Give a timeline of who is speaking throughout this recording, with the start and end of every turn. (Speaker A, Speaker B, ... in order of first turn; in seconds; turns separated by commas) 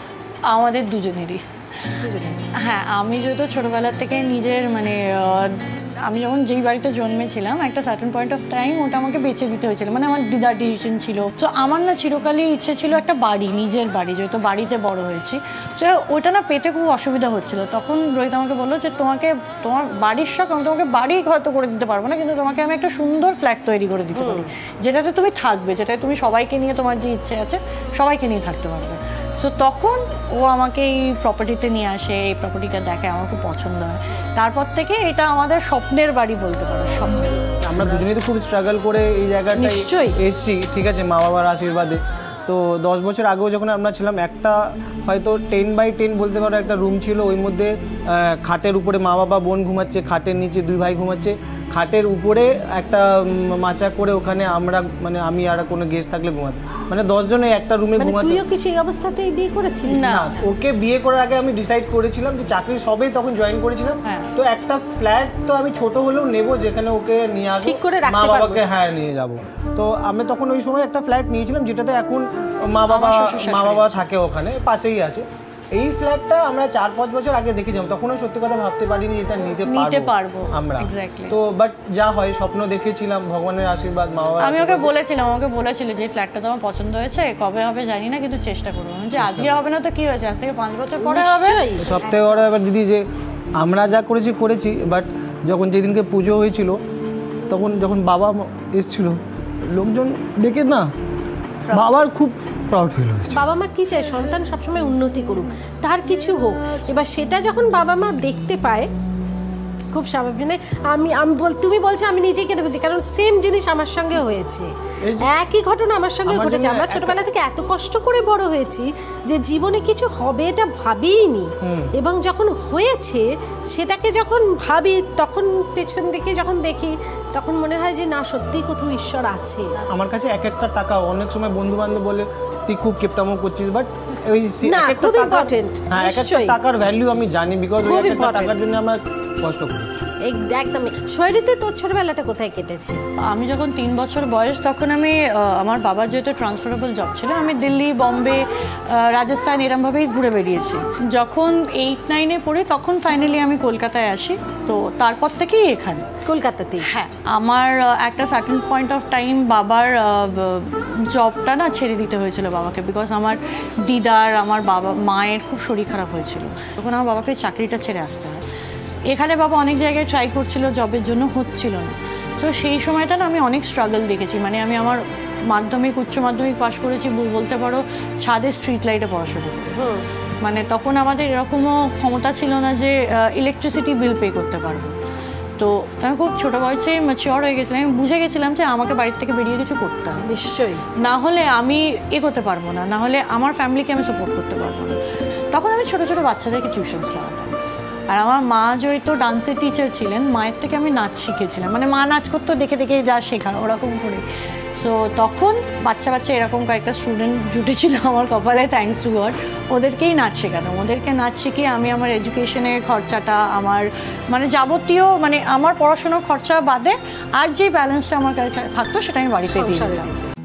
Speaker A: 0.5-1.4, Speaker B: 2.0-2.4, Speaker A: 2.5-38.0, Speaker B: 24.1-24.5, Speaker C: 37.6-58.4, Speaker B: 39.5-40.1, Speaker B: 58.0-60.3, Speaker A: 59.9-60.4, Speaker C: 60.1-84.9, Speaker A: 64.0-64.3, Speaker B: 67.6-68.7, Speaker A: 72.9-74.1, Speaker A: 79.7-81.3, Speaker A: 84.4-91.7, Speaker C: 89.2-89.5, Speaker B: 91.0-92.3, Speaker C: 91.8-93.0, Speaker C: 93.6-96.8, Speaker C: 97.5-99.2, Speaker C: 99.7-100.9, Speaker C: 101.7-103.4, Speaker B: 103.3-108.9, Speaker B: 109.9-114.7, Speaker C: 115.0-115.3, Speaker B: 115.2-129.8, Speaker C: 116.2-117.2, Speaker C: 121.6-121.9, Speaker C: 129.9-139.9, Speaker B: 134.7-136.6, Speaker B: 137.8-138.5, Speaker B: 140.2-143.0, Speaker A: 143.3-156.1, Speaker B: 156.2-156.9, Speaker A: 156.8-168.4, Speaker A: 169.1-179.8, Speaker B: 179.8-180.1, Speaker A: 180.4-184.9, Speaker A: 185.6-190.2, Speaker B: 190.2-190.8, Speaker A: 191.0-195.0, Speaker A: 195.5-197.5, Speaker A: 198.1-204.2, Speaker A: 204.8-220.1, Speaker B: 219.5-220.2